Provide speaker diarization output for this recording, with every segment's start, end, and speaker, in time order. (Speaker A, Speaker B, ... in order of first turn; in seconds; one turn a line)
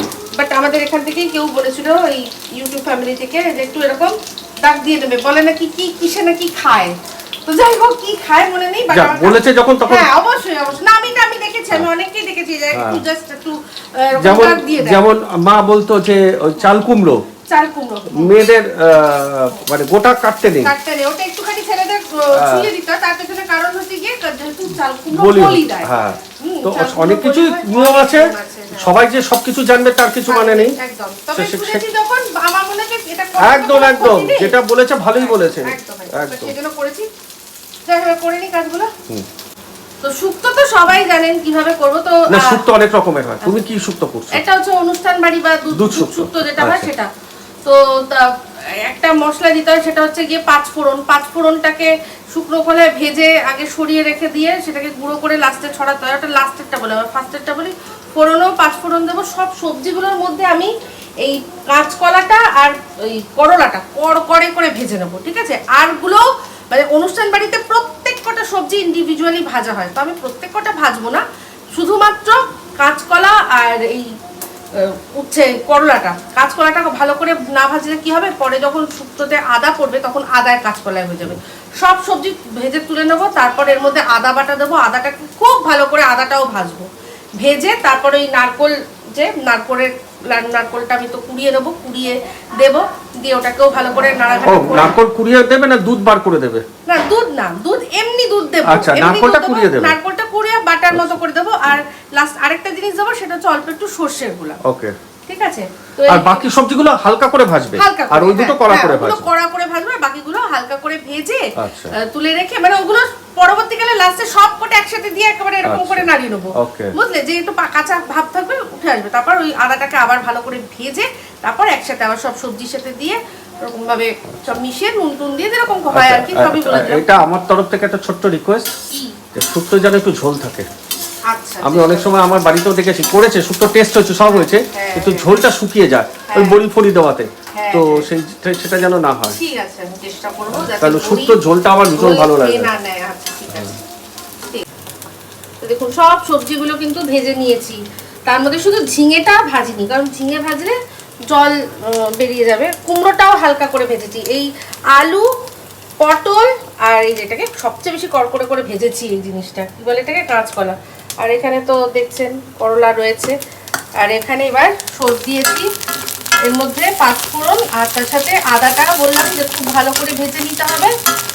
Speaker A: 0.4-9.3
Speaker B: 8.9-10.1
Speaker A: 9.9-14.9
Speaker B: 12.7-13.0
Speaker B: 14.2-17.2
Speaker A: 17.5-18.5
Speaker B: 18.1-20.7
Speaker A: 20.6-28.9
Speaker B: 22.3-22.7
Speaker B: 25.1-30.8
Speaker A: 30.3-34.5
Speaker B: 31.3-31.8
Speaker B: 33.4-36.5
Speaker A: 35.2-37.1
Speaker A: 37.9-38.9
Speaker A: 40.0-42.5
Speaker B: 42.3-44.4
Speaker A: 44.3-47.1
Speaker B: 45.7-46.9
Speaker A: 47.6-74.1
Speaker A: 74.7-94.9
Speaker B: 94.5-96.6
Speaker A: 96.9-104.6
Speaker B: 98.6-100.0
Speaker B: 100.9-101.2
Speaker B: 104.6-105.0
Speaker A: 105.3-106.4
Speaker B: 106.1-109.3
Speaker A: 107.8-127.2
Speaker B: 111.6-111.9
Speaker B: 115.6-116.9
Speaker B: 125.9-128.7
Speaker A: 128.9-129.2
Speaker B: 129.3-130.7
Speaker A: 131.3-132.1
Speaker B: 131.6-139.4
Speaker A: 134.3-135.3
Speaker A: 136.3-136.6
Speaker A: 137.5-138.1
Speaker A: 139.3-141.4
Speaker B: 140.5-142.7
Speaker A: 141.9-143.8
Speaker A: 145.6-150.8
Speaker A: 151.3-155.3
Speaker A: 156.0-163.3
Speaker A: 164.0-165.7
Speaker A: 166.5-170.9